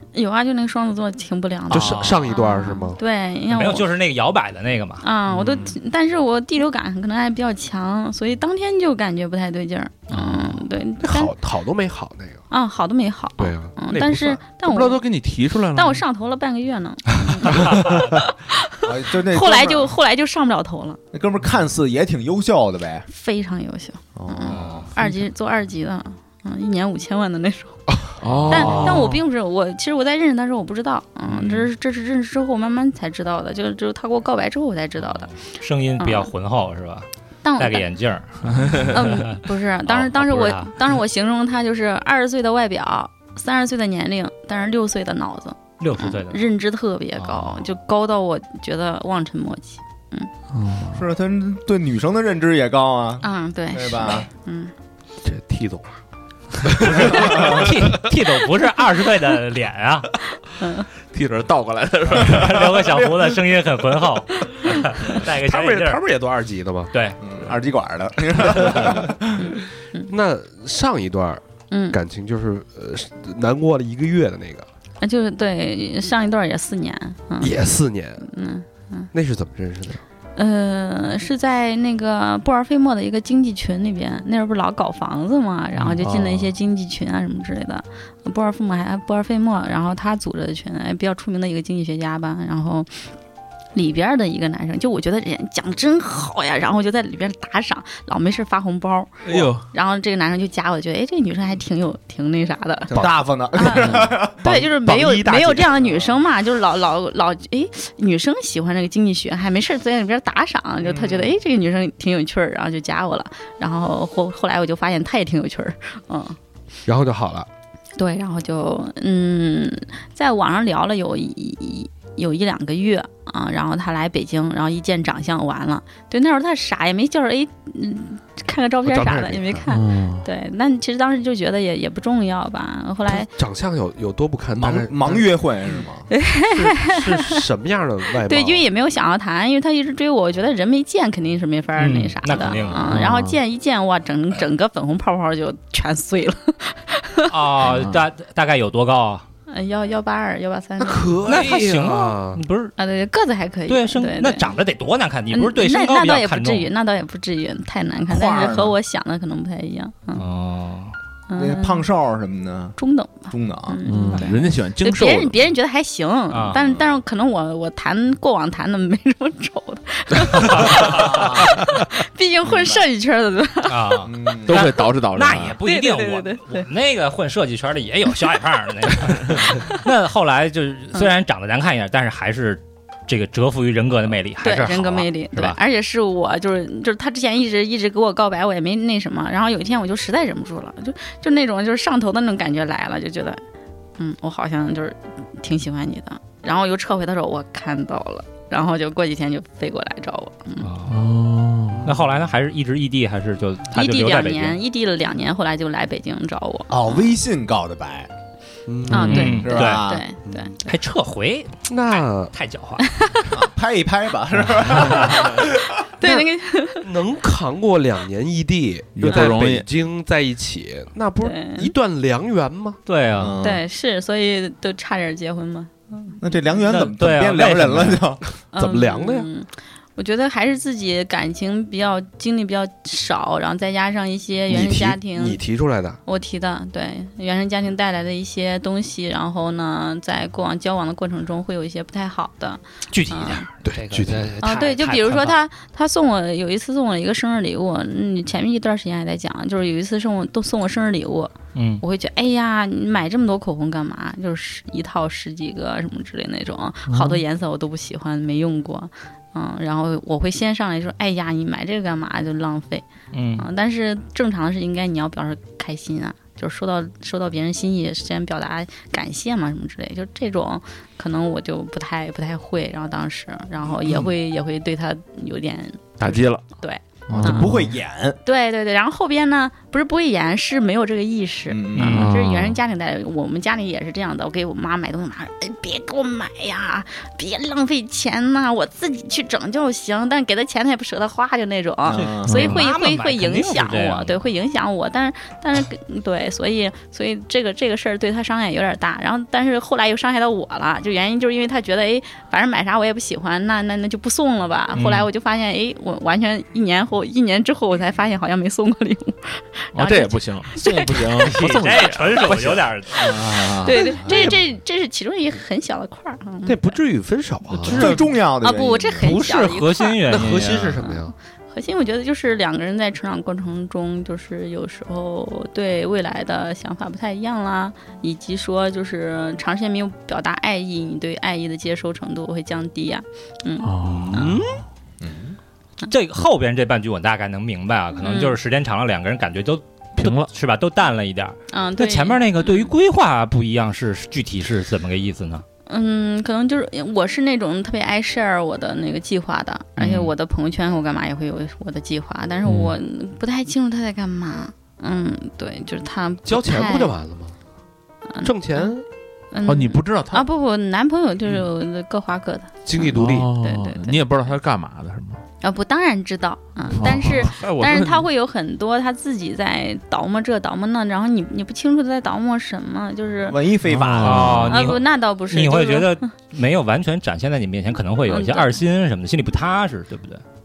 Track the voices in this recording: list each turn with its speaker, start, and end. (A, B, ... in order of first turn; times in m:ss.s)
0:00.1-0:03.9 A
0:01.7-0:03.0 B
0:01.8-0:02.2 C
0:03.5-0:05.0 D
0:05.0-0:11.3 A
0:05.3-0:05.7 C
0:10.1-0:10.6 D
0:11.0-0:12.4 B
0:12.5-0:15.0 A
0:13.4-0:14.4 B
0:14.6-0:16.0 C
0:15.7-0:21.0 A
0:17.5-0:18.1 D
0:18.8-0:19.9 E
0:21.1-0:23.1 E
0:23.1-0:28.0 A
0:24.2-0:24.9 E
0:24.5-0:24.9 D
0:28.2-0:29.2 C
0:28.5-0:35.3 A
0:31.3-0:31.7 D
0:35.0-0:40.7 D
0:36.0-0:36.3 A
0:37.4-0:37.9 A
0:38.5-0:39.0 C
0:38.7-0:50.3 A
0:45.8-0:46.4 D
0:47.2-0:47.6 D
0:50.5-0:51.0 C
0:50.9-0:54.3 E
0:53.2-0:54.7 A
0:55.2-0:56.0 B
0:56.6-0:57.7 B
0:56.8-1:00.1 D
1:00.6-1:00.9 A
1:01.1-1:02.8 C
1:02.2-1:06.0 D
1:05.3-1:06.9 B
1:06.9-1:07.2 D
1:07.2-1:09.2 E
1:09.4-1:10.1 A
1:10.1-1:14.7 B
1:11.7-1:12.0 A
1:15.0-1:17.5 A
1:17.4-1:18.3 B
1:18.3-1:19.1 A
1:19.1-1:20.0 B
1:20.4-1:32.9 A
1:26.0-1:26.3 C
1:33.8-1:43.0 A
1:39.2-1:39.7 C
1:42.9-1:44.4 E
1:43.5-1:56.4 A
1:44.4-1:45.6 C
1:44.5-1:45.7 B
1:50.8-1:51.3 E
1:56.9-1:57.5 B
1:58.0-2:13.3 A
2:08.8-2:09.6 B
2:09.7-2:10.3 C
2:13.1-2:15.3 B
2:14.6-2:16.1 E
2:16.1-2:17.4 A
2:16.5-2:18.7 B
2:18.2-2:27.4 A
2:21.8-2:23.0 D
2:22.8-2:23.4 C
2:27.3-2:29.2 D
2:29.5-2:31.2 A
2:30.8-2:32.4 B
2:31.3-2:32.7 D
2:32.8-2:34.6 A
2:33.7-2:36.7 D
2:35.3-2:40.3 A
2:38.1-2:38.8 E
2:40.2-2:41.0 D
2:41.3-2:41.9 A
2:41.4-2:42.8 E
2:42.8-2:54.0 A
2:43.3-2:43.8 E
2:43.9-2:45.4 C
2:46.3-2:46.6 D
2:50.4-2:51.3 D
2:50.7-2:51.5 E
2:53.7-3:05.6 D
2:54.0-2:54.7 E
2:54.5-2:55.6 C
2:55.6-2:56.6 A
3:04.4-3:13.4 A
3:14.0-3:20.7 A
3:20.6-3:21.1 D
3:20.9-3:21.9 C
3:21.8-3:24.6 D
3:23.7-3:27.2 A
3:26.7-3:28.1 E
3:28.7-3:29.4 B
3:28.9-3:30.0 E
3:28.9-3:30.7 A
3:29.1-3:29.9 D
3:30.3-3:30.6 B
3:30.6-3:32.9 D
3:31.7-3:32.3 B
3:32.9-3:33.2 A
3:33.3-3:35.6 E
3:35.9-3:36.9 A
3:36.0-3:36.3 B
3:36.8-3:42.8 B
3:39.0-3:39.7 C
3:41.2-3:41.7 A
3:42.9-3:43.4 D
3:43.2-3:43.6 E
3:43.4-3:46.2 A
3:46.2-3:48.2 E
3:46.6-3:48.1 D
3:48.5-3:55.4 A
3:48.6-3:49.3 B
3:54.5-3:56.0 B
3:56.1-4:03.5 A
4:02.9-4:05.4 D
4:03.6-4:04.3 B
4:04.4-4:22.8 A
4:11.6-4:11.8 D
4:16.9-4:17.2 C
4:23.1-4:23.4 D
4:23.4-4:37.5 A
4:36.0-4:36.4 C
4:37.1-4:37.7 C
4:37.1-4:38.2 E
4:38.2-5:11.3 A
4:41.5-4:42.1 E
4:41.8-4:42.6 C
4:51.8-4:52.6 E
4:51.9-4:54.2 D
5:04.7-5:05.1 D
5:09.7-5:12.7 C
5:11.3-5:13.2 D
5:12.9-5:14.4 E
5:13.6-5:16.8 A
5:16.4-5:18.0 B
5:17.7-5:19.1 E
5:17.8-5:20.0 A
5:19.0-5:20.8 D
5:20.1-5:21.1 B
5:20.8-5:34.3 A
5:33.6-5:34.6 C
5:35.0-5:35.4 E
5:35.8-5:45.4 D
5:38.0-5:38.4 A
5:40.0-5:40.3 C
5:41.5-5:42.7 A
5:45.7-5:57.0 A
5:49.8-5:50.1 D
5:52.4-5:52.7 C
5:56.2-5:57.4 B
5:58.1-5:58.7 A
5:58.2-5:58.8 B
5:59.3-6:04.0 A
5:59.4-6:00.3 C
6:02.6-6:03.3 B
6:02.9-6:05.2 C
6:05.4-6:13.4 A
6:06.7-6:08.1 C
6:13.3-6:14.5 E
6:13.6-6:14.6 C
6:14.0-6:20.2 D
6:14.5-6:16.0 A
6:18.1-6:18.6 A